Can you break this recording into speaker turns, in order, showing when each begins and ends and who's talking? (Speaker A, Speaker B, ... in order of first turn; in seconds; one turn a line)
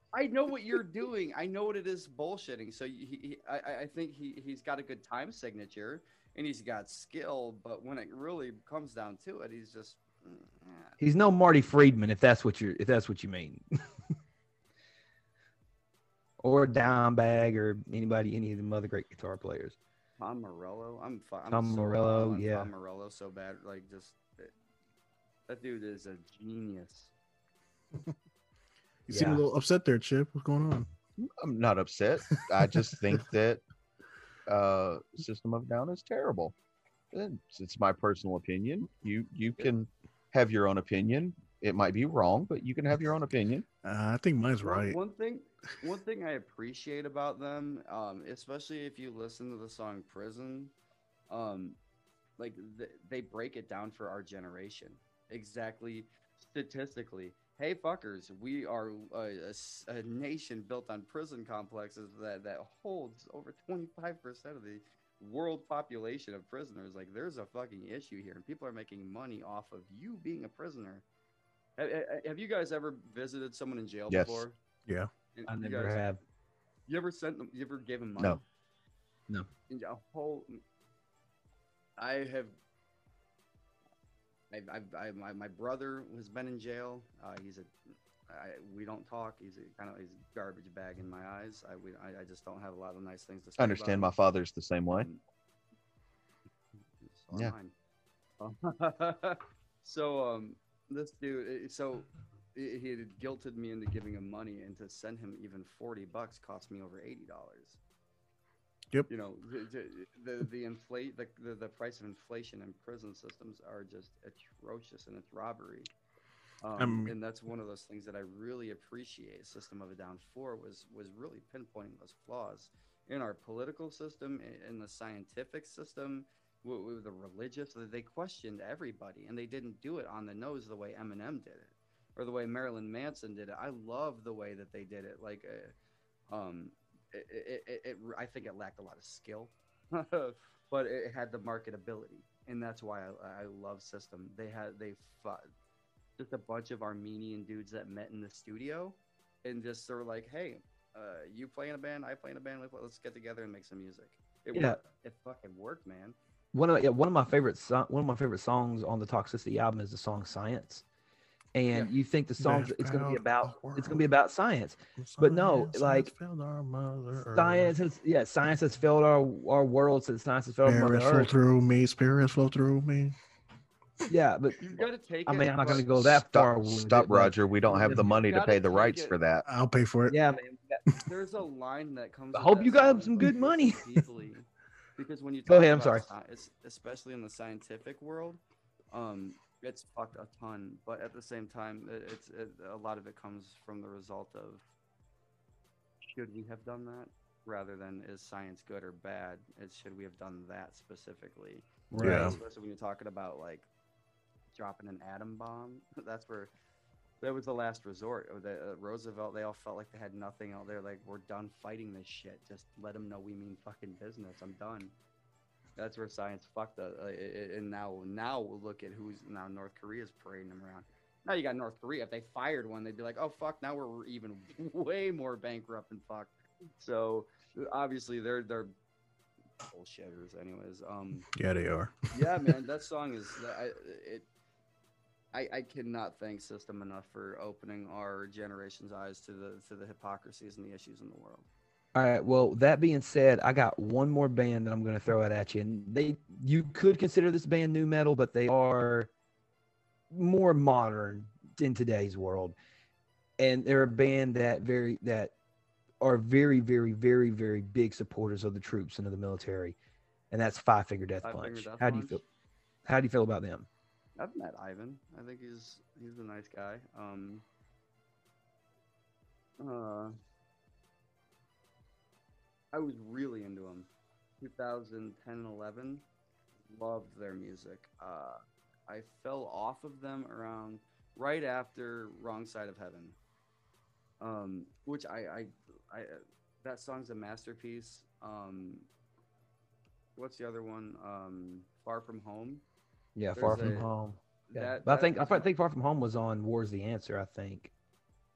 Speaker A: 0.1-10.9
Speaker B: 11.0-13.6
Speaker B: 16.4-19.8
Speaker A: 20.2-24.5
Speaker B: 21.5-22.7
Speaker A: 25.5-27.1
Speaker C: 29.1-30.9
Speaker B: 29.1-29.4
Speaker D: 31.2-33.6
Speaker C: 32.6-33.2
Speaker D: 34.5-36.5
Speaker D: 37.1-43.6
Speaker C: 43.8-45.0
Speaker A: 44.6-50.7
Speaker A: 51.3-51.8
Speaker A: 52.4-71.0
Speaker A: 71.8-74.5
Speaker D: 74.1-74.4
Speaker A: 75.3-76.0
Speaker B: 75.5-76.2
Speaker A: 76.9-78.4
Speaker A: 79.7-80.6
Speaker A: 82.0-82.6
Speaker A: 84.5-94.1
Speaker D: 93.6-95.1
Speaker A: 94.9-95.2
Speaker A: 97.0-97.7
Speaker A: 98.4-107.8
Speaker A: 109.1-115.9
Speaker A: 116.6-135.7
Speaker C: 116.8-117.1
Speaker A: 136.3-145.5
Speaker A: 146.2-156.2
Speaker B: 154.5-154.8
Speaker B: 156.5-160.8
Speaker B: 161.5-166.1
Speaker C: 162.4-164.1
Speaker C: 165.0-167.7
Speaker B: 167.3-171.3
Speaker C: 170.7-173.2
Speaker B: 174.1-178.1
Speaker A: 174.6-175.9
Speaker D: 175.9-179.5
Speaker A: 178.0-179.2
Speaker C: 179.5-180.2
Speaker B: 180.1-180.8
Speaker A: 181.0-188.4
Speaker B: 182.3-183.8
Speaker B: 185.5-186.1
Speaker A: 188.9-194.7
Speaker A: 196.1-203.7
Speaker B: 201.9-202.4
Speaker C: 202.0-202.4
Speaker A: 204.5-206.5
Speaker A: 207.2-214.9
Speaker A: 215.8-228.7
Speaker A: 229.7-231.3
Speaker C: 231.3-232.1
Speaker A: 232.1-234.3
Speaker A: 235.3-241.5
Speaker B: 241.9-249.1
Speaker B: 250.1-252.6
Speaker B: 253.4-255.3
Speaker B: 256.0-259.8
Speaker B: 260.3-262.2
Speaker A: 261.2-262.2
Speaker B: 262.9-263.7
Speaker A: 264.2-267.4
Speaker A: 269.6-270.2
Speaker A: 272.7-273.9
Speaker A: 274.4-276.1
Speaker A: 276.7-283.2
Speaker A: 284.2-288.9
Speaker A: 290.2-292.6
Speaker B: 293.2-297.7
Speaker A: 293.3-293.9
Speaker A: 294.5-295.5